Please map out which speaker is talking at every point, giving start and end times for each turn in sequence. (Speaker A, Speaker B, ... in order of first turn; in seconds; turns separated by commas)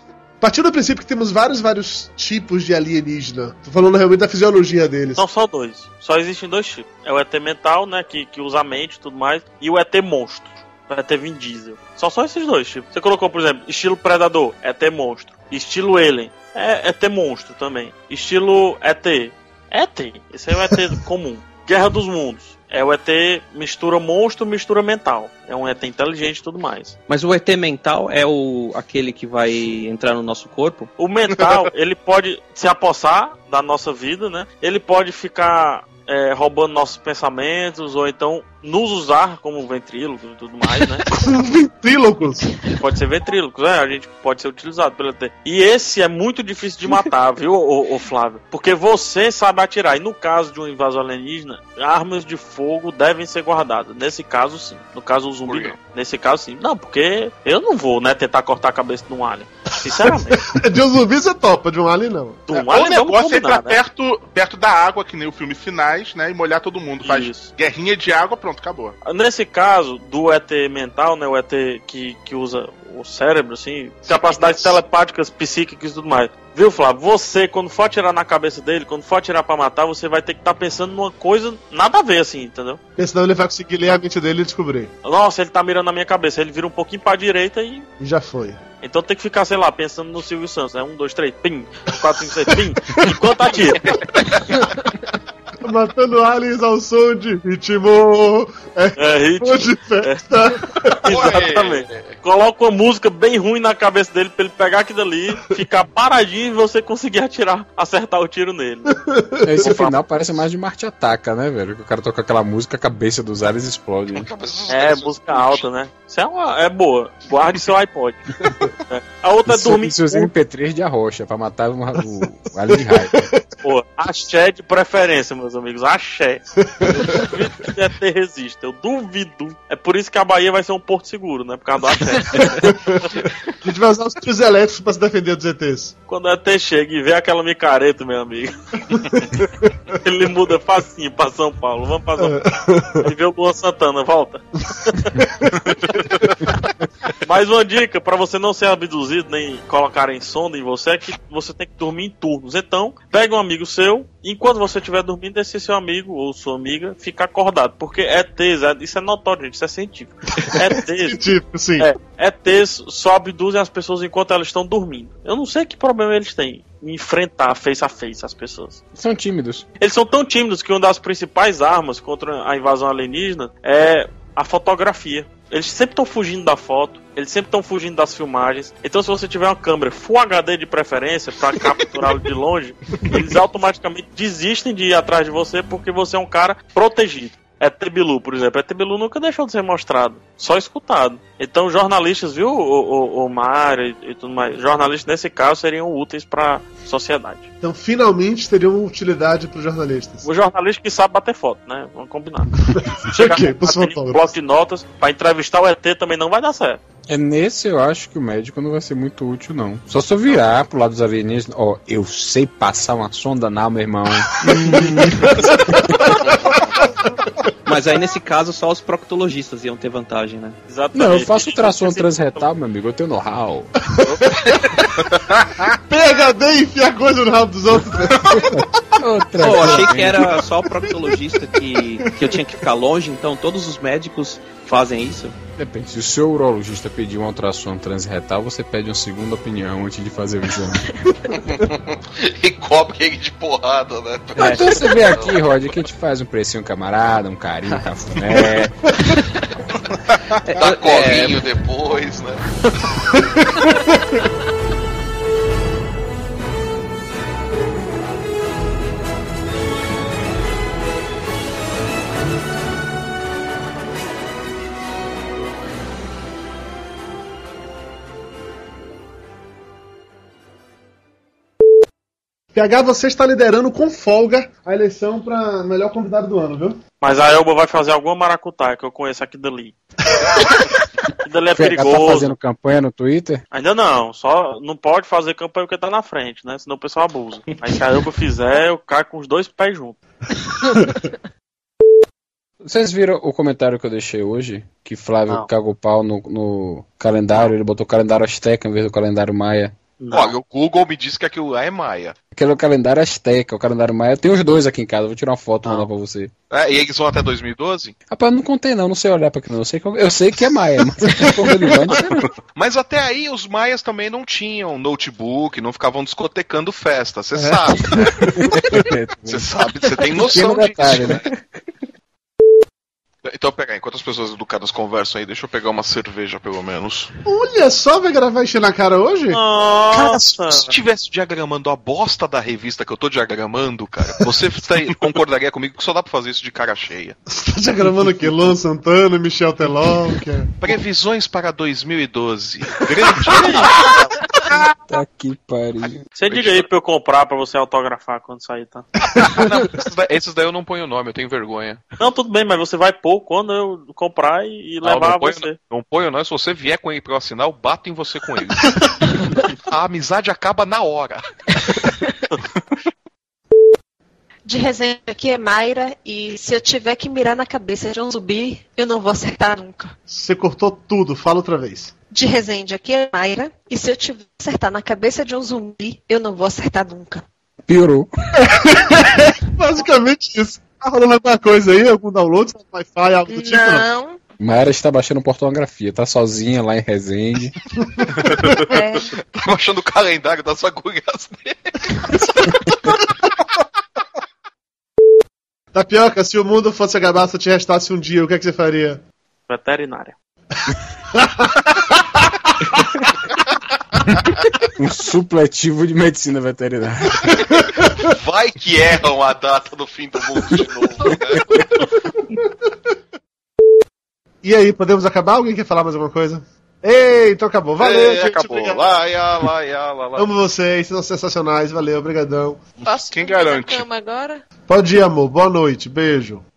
Speaker A: 0.4-5.2, Speaker B: 5.2-26.9, Speaker C: 27.1-30.9, Speaker B: 31.0-41.0, Speaker A: 41.1-42.6, Speaker B: 42.7-60.4, Speaker D: 55.5-55.8, Speaker A: 60.4-62.4, Speaker B: 62.5-63.8, Speaker E: 62.5-69.0, Speaker B: 67.0-67.5, Speaker B: 69.0-82.8, Speaker A: 83.0-84.9, Speaker B: 85.0-87.9, Speaker A: 88.0-88.6, Speaker B: 88.8-94.0, Speaker D: 93.8-94.7, Speaker A: 95.6-101.0, Speaker B: 99.0-100.2, Speaker B: 101.0-109.0, Speaker D: 101.0-102.2, Speaker A: 109.0-109.8, Speaker F: 109.4-114.3, Speaker B: 109.6-109.9, Speaker D: 114.1-115.7, Speaker B: 114.7-118.2, Speaker B: 118.9-120.3, Speaker F: 119.5-123.3, Speaker A: 122.9-123.4, Speaker B: 123.6-133.2, Speaker A: 126.7-127.1, Speaker A: 132.6-135.9, Speaker B: 136.1-138.5, Speaker A: 138.9-139.7, Speaker B: 139.9-142.4, Speaker A: 142.2-143.1, Speaker B: 143.0-145.2, Speaker B: 145.9-146.1, Speaker B: 147.2-161.2, Speaker A: 161.0-161.9, Speaker B: 161.8-168.8, Speaker F: 168.9-169.6, Speaker B: 169.8-197.4, Speaker A: 197.6-200.2, Speaker B: 200.2-206.8, Speaker A: 202.7-204.3, Speaker F: 207.1-216.3, Speaker A: 214.5-216.9, Speaker D: 216.4-216.7, Speaker C: 217.7-220.6, Speaker B: 220.7-222.5, Speaker F: 220.9-223.8, Speaker B: 224.0-224.3, Speaker A: 224.3-224.9, Speaker A: 225.7-228.6, Speaker F: 228.2-230.4, Speaker C: 229.4-235.3, Speaker A: 230.9-231.1, Speaker A: 231.7-232.4, Speaker F: 235.6-241.1, Speaker D: 241.3-245.4, Speaker F: 244.4-249.1, Speaker C: 244.4-244.8, Speaker C: 250.4-251.4, Speaker D: 250.6-252.4, Speaker A: 253.2-253.9, Speaker A: 272.5-276.8, Speaker B: 277.0-279.7, Speaker B: 281.2-282.3, Speaker F: 281.5-283.4, Speaker B: 283.5-290.0, Speaker G: 290.7-291.1, Speaker F: 292.6-299.8, Speaker B: 300.0-300.3, Speaker D: 300.1-302.1, Speaker F: 302.3-306.3, Speaker D: 306.5-307.9, Speaker F: 308.1-312.3, Speaker D: 312.5-318.3, Speaker A: 317.3-318.5, Speaker F: 318.4-319.6, Speaker D: 319.2-321.3, Speaker F: 320.2-321.2, Speaker D: 323.2-327.1, Speaker A: 327.2-329.4, Speaker B: 329.3-330.7, Speaker D: 329.9-337.2, Speaker A: 337.3-340.5, Speaker D: 340.6-344.1, Speaker A: 343.1-343.6, Speaker F: 344.9-346.0, Speaker B: 346.1-348.9, Speaker D: 346.2-346.6, Speaker A: 349.2-349.5, Speaker D: 349.2-351.8, Speaker B: 352.0-355.6, Speaker D: 354.8-361.2, Speaker G: 364.4-369.9, Speaker A: 370.1-371.9, Speaker G: 372.1-377.2, Speaker F: 377.7-378.1, Speaker A: 378.4-383.9, Speaker G: 383.3-384.2, Speaker F: 384.4-387.6, Speaker G: 388.6-389.2, Speaker D: 389.1-393.0, Speaker A: 395.7-399.0, Speaker B: 399.5-400.1, Speaker A: 401.1-402.2, Speaker F: 404.7-407.5, Speaker D: 407.5-411.9, Speaker F: 411.1-411.6, Speaker A: 412.3-412.7, Speaker A: 414.4-418.9, Speaker D: 417.8-420.3, Speaker A: 420.2-422.6, Speaker G: 422.8-424.4, Speaker E: 423.1-423.8, Speaker A: 424.7-426.4